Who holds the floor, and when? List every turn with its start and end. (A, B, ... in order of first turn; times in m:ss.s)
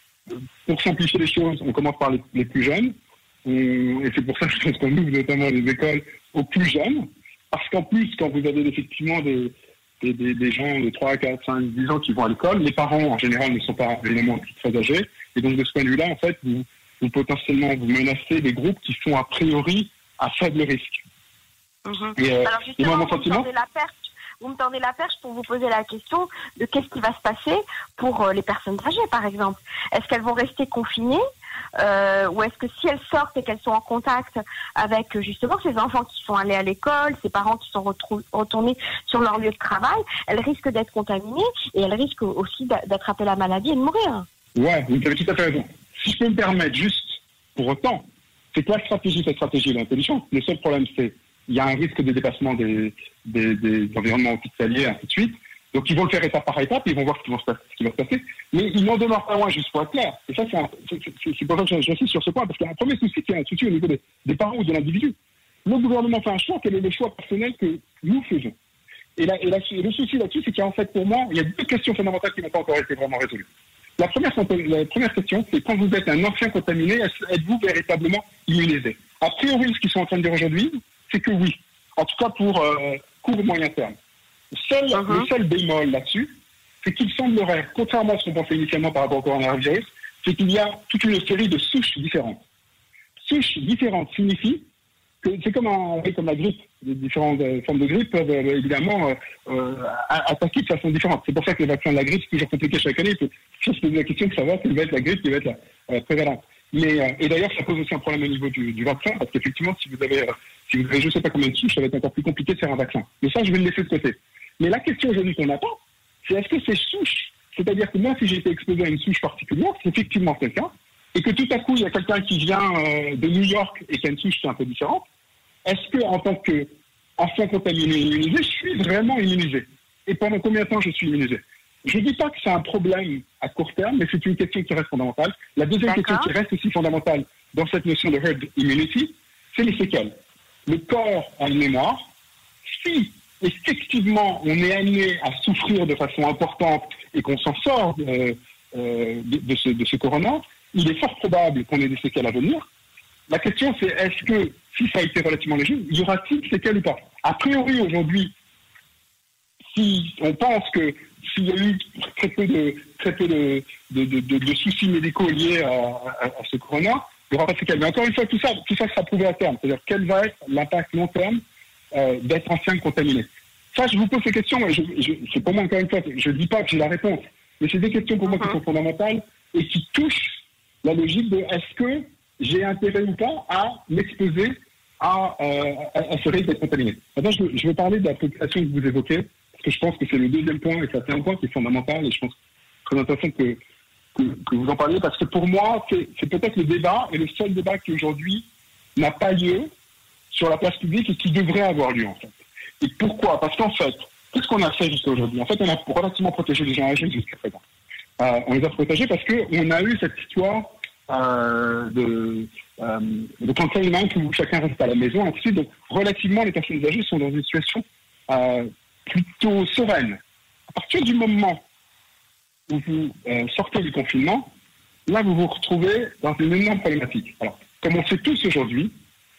0:00.3-0:21.0 A
0:21.8-0:31.2 B
0:22.2-0:23.5 A
0:31.8-0:44.2 B
0:44.6-1:08.5 A
1:09.2-1:13.5 A
1:14.0-1:23.9 A
1:24.5-1:32.4 A
1:24.9-1:25.3 B
1:33.2-1:34.6 A
1:35.2-2:05.0 A
2:05.6-2:20.1 A
2:15.8-2:16.3 B
2:20.6-2:22.0 A
2:22.7-2:32.7 A
2:33.3-2:38.3 A
2:39.7-2:51.4 A
2:51.9-3:13.6 A
2:58.2-2:58.6 B
3:14.1-3:19.7 A
3:20.3-3:27.6 A
3:28.2-3:41.6 A
3:42.7-3:44.5 A
3:45.1-3:48.9 A